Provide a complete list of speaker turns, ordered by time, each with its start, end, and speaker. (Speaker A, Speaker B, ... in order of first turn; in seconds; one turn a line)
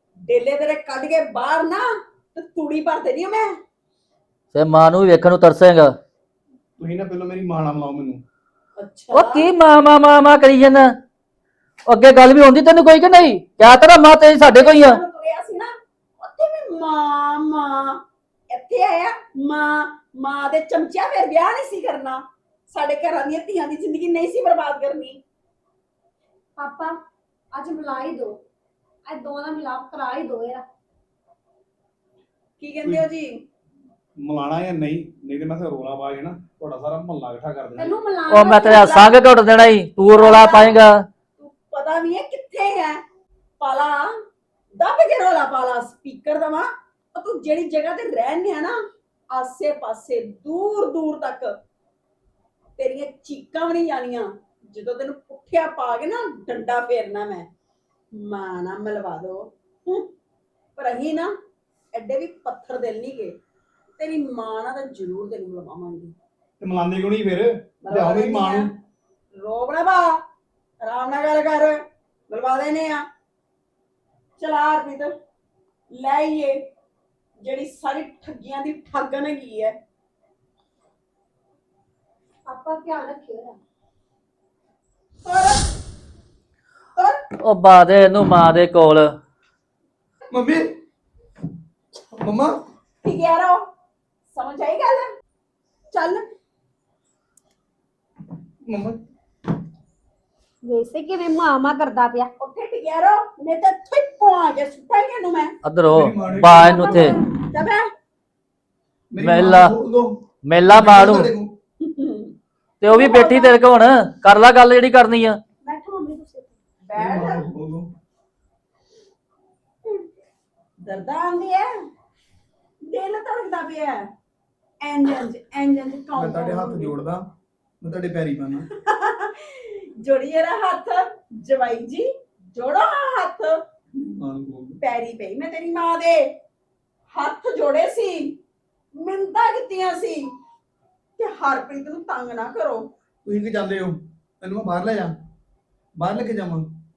Speaker A: 0.3-3.6
Speaker B: 4.5-5.9
Speaker C: 6.8-8.2
Speaker A: 8.8-9.5
Speaker B: 9.1-10.9
Speaker B: 11.9-15.0
Speaker A: 14.4-18.0
Speaker A: 18.5-25.2
Speaker D: 26.6-26.9
Speaker D: 27.5-28.4
Speaker D: 29.1-30.6
Speaker A: 32.6-33.4
Speaker C: 34.2-37.9
Speaker D: 37.8-39.2
Speaker B: 38.3-41.0
Speaker A: 40.0-40.8
Speaker A: 41.4-43.0
Speaker A: 43.6-44.1
Speaker A: 44.8-48.8
Speaker A: 49.3-51.6
Speaker A: 52.8-57.5
Speaker A: 58.1-60.1
Speaker A: 60.8-61.3
Speaker A: 61.9-63.4
Speaker A: 64.0-66.1
Speaker C: 66.6-68.7
Speaker A: 67.8-68.7
Speaker A: 69.4-70.2
Speaker A: 70.8-73.1
Speaker A: 74.4-75.1
Speaker A: 75.9-76.7
Speaker A: 77.4-79.8
Speaker D: 82.5-83.6
Speaker A: 85.2-85.6
Speaker B: 87.4-89.1
Speaker C: 90.3-90.8
Speaker C: 92.1-92.6
Speaker A: 93.0-93.6
Speaker A: 94.3-95.1
Speaker A: 95.9-96.3
Speaker C: 98.6-99.0
Speaker D: 100.6-102.3
Speaker A: 102.4-105.6
Speaker B: 105.7-107.2
Speaker C: 105.9-106.9
Speaker A: 106.9-107.9
Speaker C: 109.1-111.5
Speaker B: 109.2-109.8
Speaker B: 110.5-111.3
Speaker A: 111.8-112.3
Speaker B: 112.8-115.4
Speaker A: 112.9-113.6
Speaker D: 115.6-116.5
Speaker A: 116.8-117.5
Speaker C: 117.0-117.9
Speaker A: 120.8-121.7
Speaker A: 122.9-124.1
Speaker A: 124.8-126.9
Speaker C: 126.2-127.3
Speaker C: 127.8-128.7
Speaker A: 128.8-133.6
Speaker C: 134.2-134.8
Speaker A: 134.8-136.4
Speaker A: 137.1-138.4
Speaker A: 139.0-140.3
Speaker A: 141.2-142.9
Speaker C: 143.2-145.2
Speaker C: 146.0-146.7